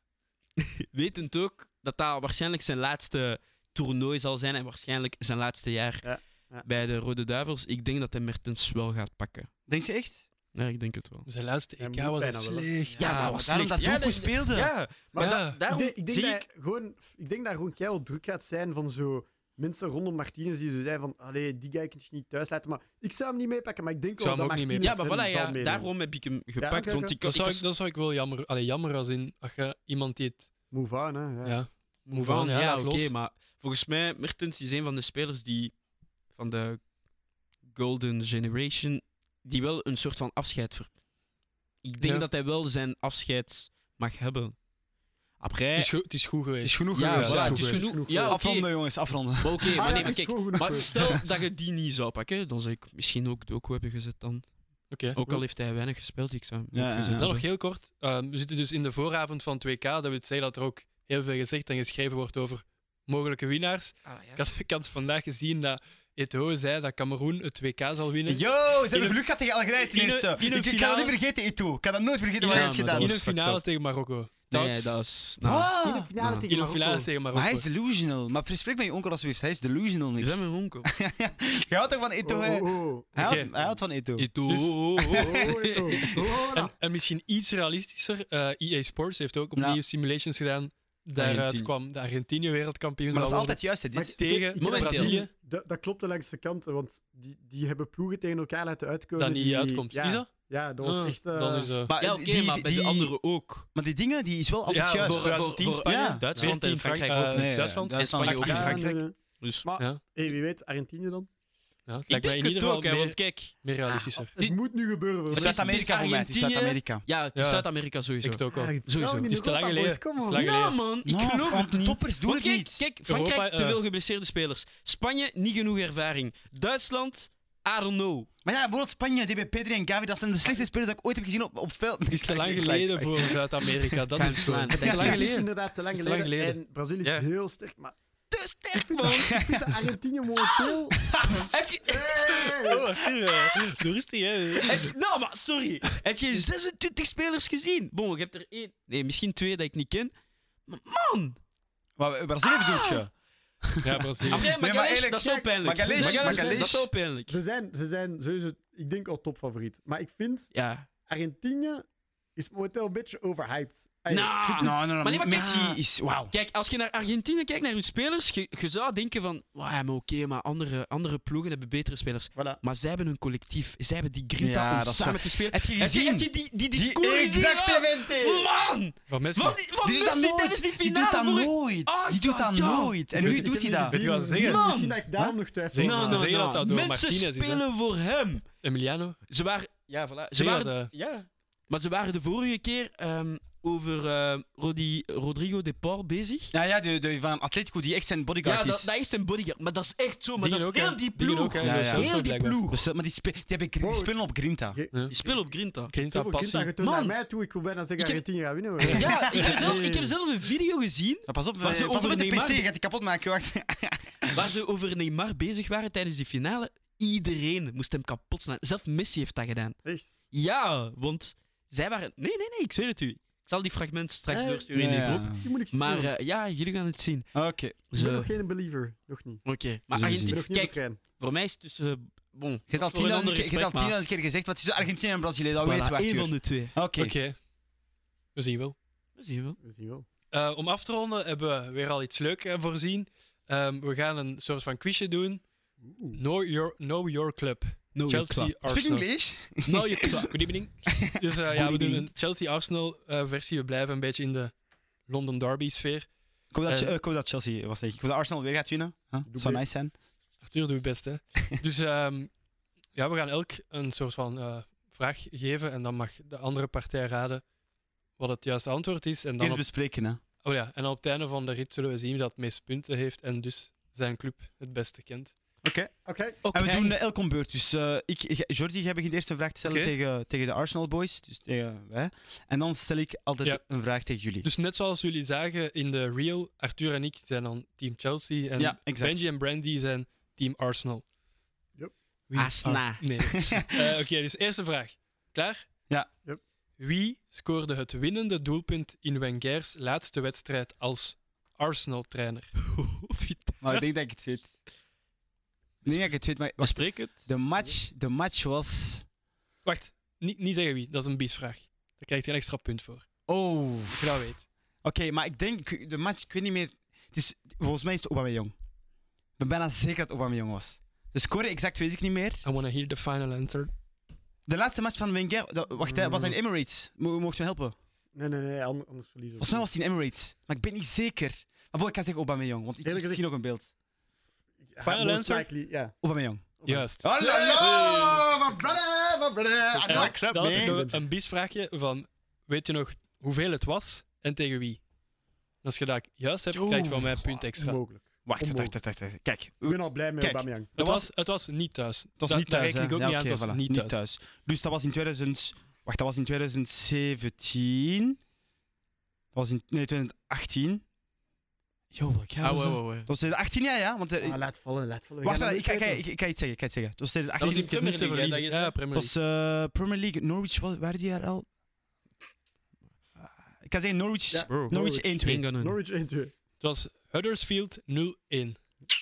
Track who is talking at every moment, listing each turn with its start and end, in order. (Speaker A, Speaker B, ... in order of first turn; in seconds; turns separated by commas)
Speaker A: 0.9-9.5, Speaker B: 6.0-6.7, Speaker C: 9.7-10.2, Speaker A: 10.5-11.3, Speaker D: 11.3-13.1, Speaker B: 11.8-12.9, Speaker A: 13.0-16.4, Speaker C: 13.0-14.7, Speaker B: 15.1-25.9, Speaker D: 15.2-15.6, Speaker D: 24.2-25.0, Speaker A: 24.8-27.7, Speaker B: 26.6-27.1, Speaker D: 27.2-30.5, Speaker B: 30.7-31.6, Speaker D: 31.4-33.1, Speaker A: 32.1-35.8, Speaker A: 36.3-36.9, Speaker A: 37.6-41.0, Speaker A: 41.8-44.6, Speaker D: 42.0-42.3, Speaker A: 45.4-45.9, Speaker D: 45.8-47.9, Speaker C: 46.6-50.2, Speaker A: 46.9-48.9, Speaker B: 47.3-48.4, Speaker A: 49.4-57.4, Speaker B: 49.8-51.2, Speaker D: 54.9-55.2, Speaker C: 56.7-57.3, Speaker D: 57.2-69.2, Speaker A: 64.0-64.4, Speaker C: 68.3-73.2, Speaker D: 69.9-71.1, Speaker A: 72.4-73.6, Speaker D: 72.5-75.0, Speaker A: 74.5-76.5, Speaker C: 75.4-76.1, Speaker B: 75.8-77.1, Speaker D: 76.5-77.7, Speaker C: 77.3-84.3, Speaker A: 80.2-80.9, Speaker B: 82.2-83.8, Speaker D: 83.2-83.5, Speaker A: 84.2-86.1, Speaker D: 84.5-84.8, Speaker C: 85.1-85.5, Speaker B: 85.2-86.7, Speaker D: 86.5-93.6, Speaker C: 89.6-89.8, Speaker A: 91.2-91.7, Speaker C: 93.1-94.3, Speaker B: 93.9-101.8, Speaker D: 94.2-95.3, Speaker A: 94.6-95.2, Speaker D: 99.2-100.3, Speaker D: 100.8-101.9, Speaker C: 101.9-103.1, Speaker A: 102.0-103.7, Speaker C: 103.7-106.2, Speaker D: 104.7-109.0, Speaker A: 105.0-109.7, Speaker C: 107.3-108.8, Speaker B: 108.4-111.3, Speaker D: 111.9-114.3, Speaker A: 112.1-113.5, Speaker B: 113.9-115.8, Speaker A: 115.3-119.3, Speaker C: 115.3-117.0, Speaker D: 117.3-117.7, Speaker D: 118.2-120.8, Speaker B: 118.5-120.5, Speaker A: 120.3-128.3, Speaker C: 121.0-122.8, Speaker D: 123.1-123.8, Speaker C: 128.4-133.4, Speaker D: 132.1-136.6, Speaker A: 134.2-135.3, Speaker B: 134.7-138.0, Speaker C: 134.8-135.2, Speaker A: 138.3-139.4, Speaker B: 138.7-141.1, Speaker C: 139.2-139.6, Speaker A: 140.4-140.8, Speaker C: 141.0-141.5, Speaker A: 141.5-142.8, Speaker B: 141.9-142.8, Speaker D: 142.7-144.9, Speaker A: 144.6-150.1, Speaker A: 150.7-151.4, Speaker C: 152.0-153.1, Speaker A: 152.5-153.0, Speaker C: 153.6-156.9, Speaker D: 153.8-154.5, Speaker A: 154.3-157.3, Speaker B: 155.9-160.5, Speaker A: 160.5-160.9, Speaker B: 161.1-164.8, Speaker A: 164.1-183.0, Speaker C: 164.6-166.3, Speaker B: 172.3-172.6, Speaker C: 174.4-178.5, Speaker D: 179.1-179.6, Speaker C: 179.8-184.0, Speaker B: 183.1-186.3, Speaker D: 183.9-184.6, Speaker A: 184.3-185.0, Speaker D: 185.7-187.6, Speaker A: 185.8-188.4, Speaker D: 188.6-189.2, Speaker A: 189.3-196.5, Speaker D: 190.3-190.9, Speaker C: 196.5-198.9, Speaker A: 198.4-202.8, Speaker D: 200.4-202.6, Speaker C: 201.6-202.2, Speaker C: 202.7-204.8, Speaker B: 203.8-204.2, Speaker B: 204.7-205.5, Speaker A: 205.1-205.9, Speaker D: 205.9-206.7, Speaker B: 206.0-210.1, Speaker A: 206.8-207.2, Speaker A: 208.0-208.2, Speaker D: 208.8-209.8, Speaker A: 208.9-212.6, Speaker C: 211.3-214.5, Speaker A: 214.3-219.8, Speaker B: 219.8-220.1, Speaker A: 220.3-228.3, Speaker B: 224.3-226.2, Speaker C: 224.7-225.4, Speaker C: 227.3-227.8, Speaker B: 227.9-229.4, Speaker A: 229.4-233.9, Speaker C: 229.9-230.4, Speaker B: 230.0-231.0, Speaker C: 232.7-237.1, Speaker A: 235.6-236.8, Speaker D: 236.9-237.4, Speaker D: 238.3-238.8, Speaker A: 239.2-239.6, Speaker B: 239.6-240.1, Speaker D: 240.3-245.4, Speaker B: 245.8-246.2, Speaker D: 246.1-249.1, Speaker A: 247.9-248.6, Speaker C: 248.7-250.3, Speaker A: 249.7-250.6, Speaker D: 250.3-256.1, Speaker C: 250.9-251.8, Speaker A: 251.6-252.1, Speaker C: 256.5-259.9, Speaker D: 256.7-256.9, Speaker B: 259.3-259.6, Speaker D: 260.4-262.3, Speaker D: 262.9-267.4, Speaker D: 268.2-269.7, Speaker C: 269.4-270.2, Speaker D: 270.4-275.4, Speaker C: 275.6-275.9, Speaker B: 276.1-276.4, Speaker A: 276.4-277.0, Speaker C: 276.4-284.5, Speaker D: 279.6-279.9, Speaker D: 284.4-291.1, Speaker C: 288.6-289.3, Speaker D: 292.3-295.7, Speaker A: 292.4-293.2, Speaker C: 292.6-294.0, Speaker D: 296.8-302.5, Speaker A: 302.6-303.8, Speaker C: 303.6-304.5, Speaker C: 305.8-309.1, Speaker A: 305.9-307.3, Speaker D: 309.6-313.1, Speaker C: 313.3-314.3, Speaker D: 313.9-314.4, Speaker C: 314.8-318.5, Speaker C: 319.4-322.4, Speaker D: 322.4-323.7, Speaker C: 324.5-327.8, Speaker B: 325.8-326.4, Speaker B: 328.1-329.7, Speaker C: 329.4-333.7, Speaker B: 332.8-333.2, Speaker B: 334.6-336.0, Speaker D: 334.8-335.5, Speaker C: 336.0-340.9, Speaker B: 336.6-338.8, Speaker D: 336.6-337.1, Speaker B: 339.7-341.0, Speaker D: 339.9-344.8, Speaker D: 345.6-347.8, Speaker C: 346.5-347.3, Speaker B: 347.6-348.8, Speaker C: 348.3-351.1, Speaker B: 349.6-350.7, Speaker D: 350.8-354.0, Speaker C: 352.2-358.2, Speaker C: 359.3-360.8, Speaker C: 361.9-364.4, Speaker A: 362.4-363.1, Speaker B: 364.2-366.0, Speaker C: 365.2-367.8, Speaker A: 367.4-368.8, Speaker D: 367.4-369.1, Speaker C: 368.9-371.5, Speaker C: 373.2-375.4, Speaker B: 374.3-376.3, Speaker A: 374.5-375.8, Speaker D: 376.6-378.6